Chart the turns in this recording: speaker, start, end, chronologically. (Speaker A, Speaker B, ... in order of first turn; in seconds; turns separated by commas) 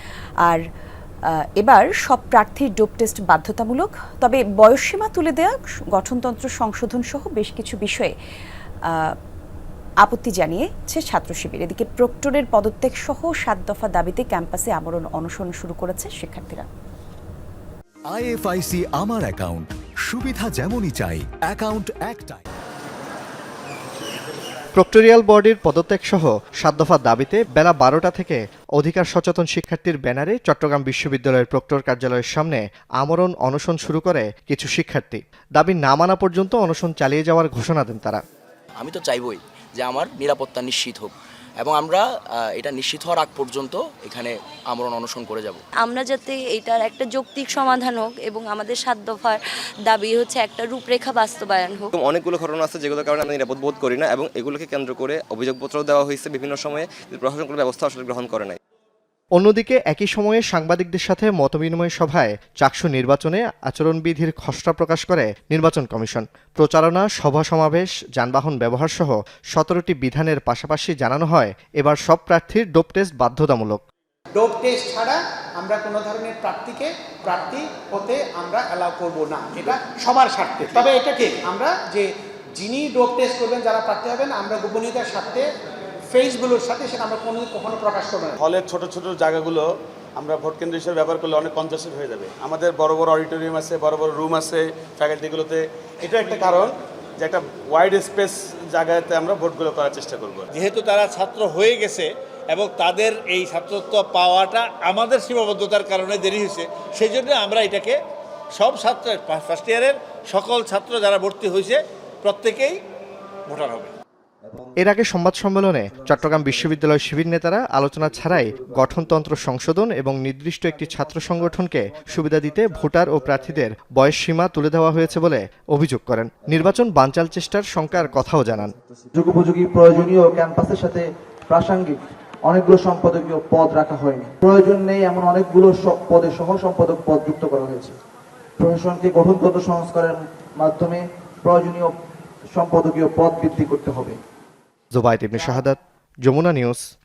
Speaker A: 1.6-8.1, Speaker A: 8.9-9.2, Speaker A: 10.0-16.7, Speaker B: 18.1-22.4, Speaker C: 24.8-38.2, Speaker D: 38.8-45.6, Speaker E: 45.8-52.0, Speaker F: 51.9-58.6, Speaker C: 59.4-73.8, Speaker G: 74.3-85.5, Speaker G: 86.1-88.4, Speaker H: 88.4-100.5, Speaker I: 100.5-108.0, Speaker I: 108.6-112.8, Speaker I: 113.5-113.9, Speaker C: 114.8-128.7, Speaker J: 129.2-138.0, Speaker J: 138.6-141.9, Speaker J: 142.5-144.2, Speaker C: 144.9-146.8